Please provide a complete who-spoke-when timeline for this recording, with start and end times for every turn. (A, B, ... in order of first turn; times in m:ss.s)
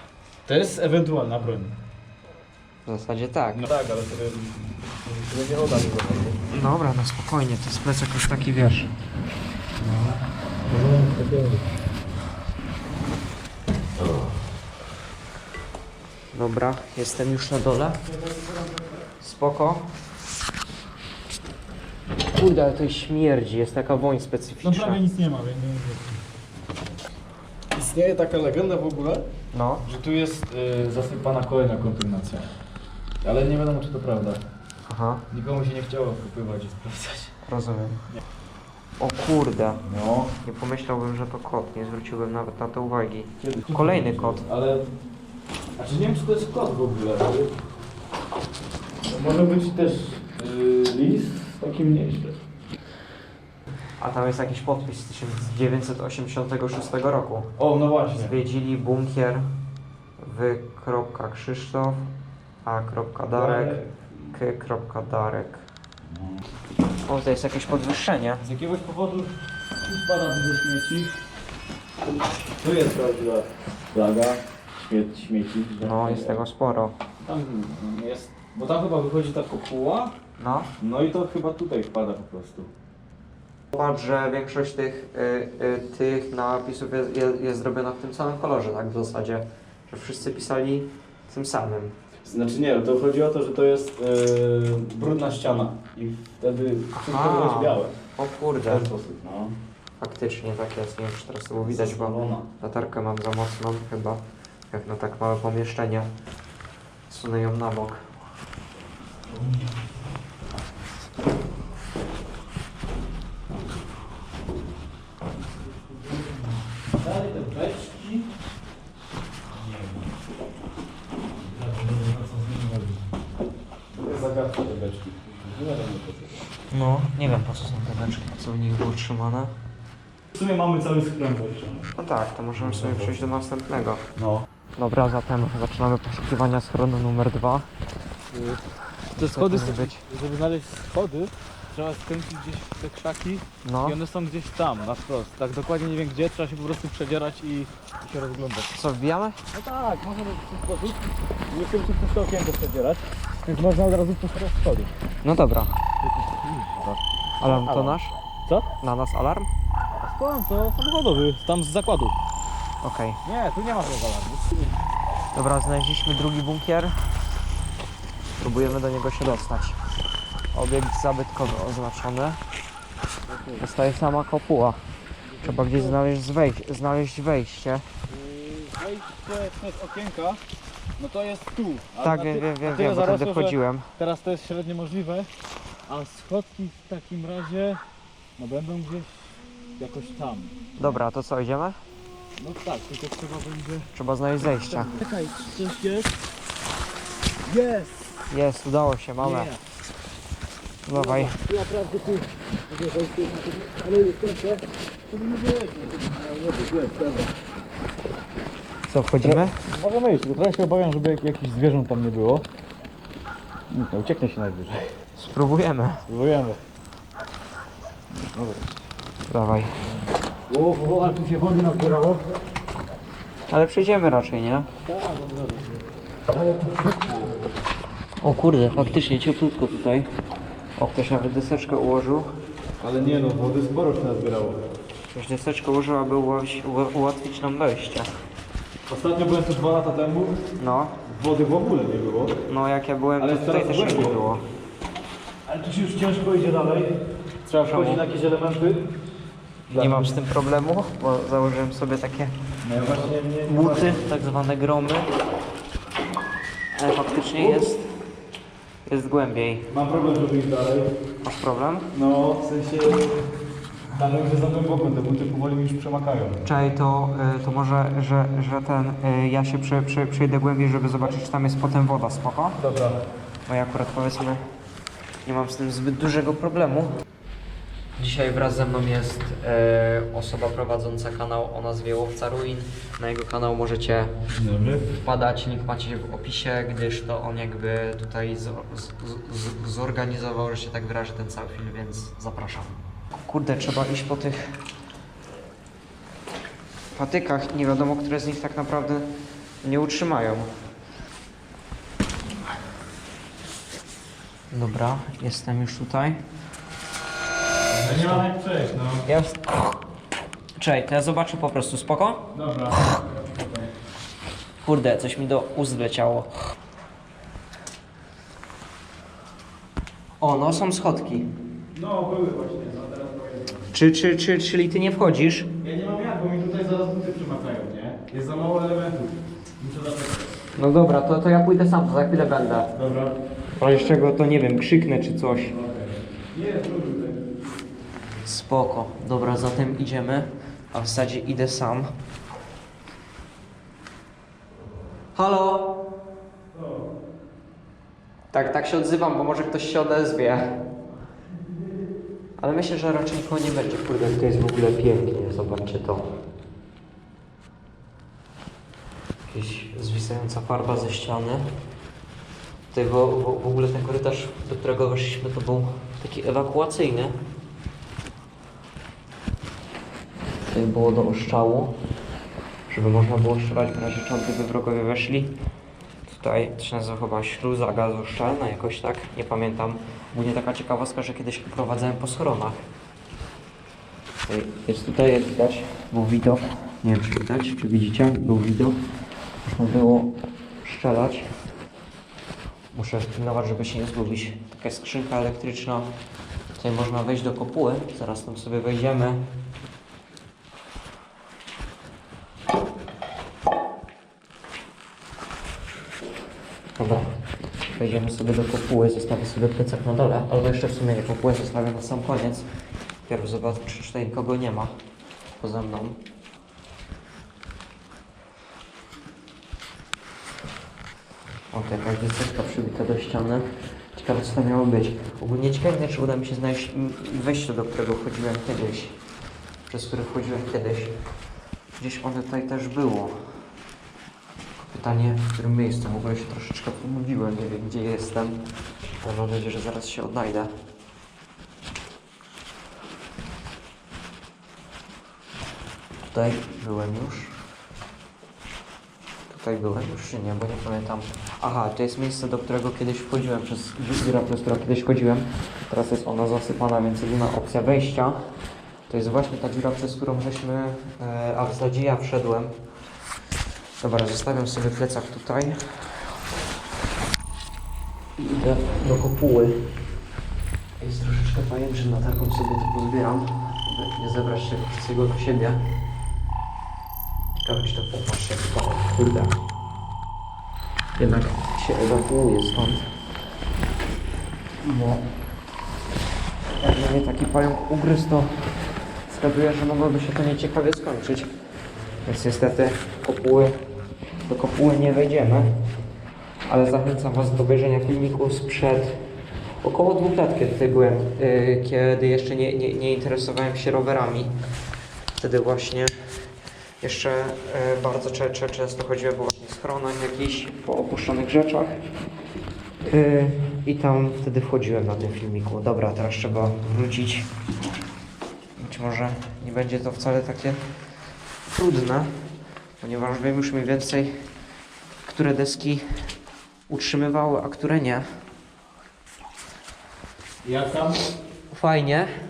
0:00.5-0:01.8 A
0:02.9-0:03.6 B
0:03.5-0:06.4 A
0:06.5-0:08.9 B
0:09.8-0:11.6 A
0:16.3-0:18.0 B
0:18.0-0:19.0 A
0:19.2-0:19.9 B
0:22.3-0:25.0 B
0:24.6-0:26.2 A
0:27.7-0:29.2 A
0:29.5-0:29.8 B
0:29.8-0:32.5 A
0:33.2-0:34.4 A
0:34.9-0:35.2 B
0:35.3-0:37.3 A
0:37.4-0:38.0 B
0:39.0-0:39.8 B
0:39.8-0:40.3 A
0:40.4-0:44.4 B
0:43.4-0:44.9 A
0:45.8-0:47.6 A
0:49.1-0:52.4 A
0:54.0-0:57.5 B
0:57.6-0:58.4 A
0:58.1-0:59.5 B
1:00.2-1:02.1 B
1:02.6-1:03.8 B
1:03.3-1:04.4 A
1:04.3-1:05.6 B
1:06.1-1:06.4 A
1:07.1-1:08.4 B
1:08.4-1:11.2 A
1:12.6-1:16.4 A
1:15.8-1:17.0 B
1:17.2-1:20.1 A
1:20.4-1:20.7 B
1:20.8-1:22.7 A
1:23.7-1:32.0 B
1:32.2-1:37.9 A
1:37.0-1:38.9 B
1:38.6-1:39.6 A
1:40.0-1:46.1 B
1:41.6-1:42.5 A
1:47.1-1:48.1 B
1:49.3-1:49.8 A
1:55.8-1:58.3 A
1:59.5-2:00.1 A
2:01.4-2:03.0 A
2:03.9-2:06.5 A
2:06.7-2:09.5 B
2:10.3-2:11.9 A
2:12.0-2:14.0 B
2:12.6-2:13.3 A
2:14.2-2:14.4 A
2:14.8-2:17.7 B
2:18.3-2:18.6 A
2:19.2-2:20.0 B
2:19.2-2:28.7 A
2:23.6-2:24.0 B
2:28.7-2:29.4 B
2:29.5-2:34.9 A
2:35.2-2:35.8 B
2:36.0-2:38.7 A
2:37.4-2:38.1 B
2:38.8-2:39.5 B
2:40.0-2:42.2 A
2:42.8-2:43.2 B
2:43.2-2:44.8 A
2:45.3-2:47.3 B
2:48.4-2:49.8 B
2:50.5-2:52.4 B
2:53.3-2:53.6 A
2:53.6-2:54.8 B
2:55.3-2:56.0 A
2:55.4-2:57.9 B
2:58.1-3:00.4 A
3:01.0-3:05.3 A
3:02.0-3:03.9 B
3:05.9-3:07.8 A
3:08.4-3:11.0 A
3:10.8-3:11.8 B
3:12.4-3:16.2 A
3:13.9-3:15.0 B
3:17.4-3:18.3 A
3:18.3-3:19.5 B
3:19.2-3:19.6 A
3:20.9-3:21.4 B
3:20.9-3:27.4 A
3:28.9-3:29.6 B
3:29.2-3:32.5 A
3:33.7-3:34.9 A
3:35.2-3:36.0 B
3:36.1-3:36.6 A
3:38.1-3:38.8 A
3:39.3-3:39.7 B
3:40.5-3:42.2 A
3:43.5-3:44.7 B
3:44.8-3:47.4 A
3:48.2-3:50.1 B
3:50.8-3:52.3 B
3:52.8-3:54.6 A
3:55.1-3:58.1 B
3:58.9-4:00.4 A
4:00.6-4:01.0 B
4:01.0-4:02.4 A
4:02.5-4:04.4 B
4:03.2-4:04.2 A
4:05.5-4:07.0 A
4:07.4-4:08.0 B
4:07.6-4:08.9 A
4:09.7-4:10.2 A
4:09.7-4:12.3 B
4:12.6-4:14.1 A
4:13.5-4:15.1 B
4:16.7-4:17.9 B
4:17.4-4:17.7 A
4:18.8-4:19.7 B
4:19.7-4:20.9 A
4:21.2-4:21.9 B
4:21.9-4:23.2 A
4:24.0-4:26.4 A
4:26.4-4:32.6 B
4:32.6-4:33.0 A
4:33.5-4:34.4 B
4:35.2-4:36.9 B
4:38.0-4:44.1 B
4:44.3-4:44.9 A
4:45.0-4:52.7 B
4:53.3-4:54.6 B
4:57.0-4:59.1 B
4:59.6-5:00.5 B
5:04.5-5:06.2 B
5:07.7-5:09.1 A
5:07.8-5:08.2 B
5:09.1-5:09.8 B
5:10.6-5:12.2 B
5:12.3-5:13.7 A
5:14.6-5:16.3 B
5:20.2-5:21.3 B
5:21.7-5:23.7 A
5:23.7-5:25.5 B
5:25.6-5:30.4 A
5:30.6-5:32.7 B
5:32.8-5:33.2 A
5:33.6-5:35.6 B
5:35.5-5:37.4 A
5:38.2-5:41.9 B
5:45.2-5:45.7 B
5:46.5-5:46.8 A
5:48.3-5:50.5 B
5:52.4-5:56.1 B
5:59.3-6:01.5 B
6:02.7-6:07.2 B
6:10.5-6:11.7 B
6:12.7-6:15.3 B
6:16.1-6:22.6 B
6:24.3-6:28.8 B
6:29.4-6:31.3 B
6:32.7-6:35.9 B
6:36.6-6:39.2 B
6:46.8-6:52.5 B
6:53.1-6:54.7 B
6:55.4-6:56.0 B
7:01.5-7:09.0 B
7:09.7-7:10.9 B
7:11.8-7:13.4 B
7:14.6-7:18.4 B
7:19.0-7:20.5 B
7:26.1-7:27.4 B
7:29.3-7:38.2 B
7:38.9-7:42.5 B
7:43.8-7:46.2 B
7:48.2-7:49.6 B
7:50.8-7:55.6 B
7:57.4-7:59.3 B
8:01.0-8:02.9 B
8:04.7-8:05.0 A
8:06.6-8:08.4 B
8:09.1-8:11.3 B
8:12.0-8:13.6 B
8:14.3-8:15.5 B
8:16.5-8:19.0 B
8:19.6-8:24.3 B
8:25.2-8:26.0 B
8:26.8-8:31.8 B
8:32.9-8:37.3 B
8:38.6-8:40.6 B
8:41.5-8:42.1 B
8:42.8-8:44.2 B
8:45.1-8:45.9 B
8:46.7-8:48.1 B
8:50.4-8:51.0 A
8:51.5-8:52.1 B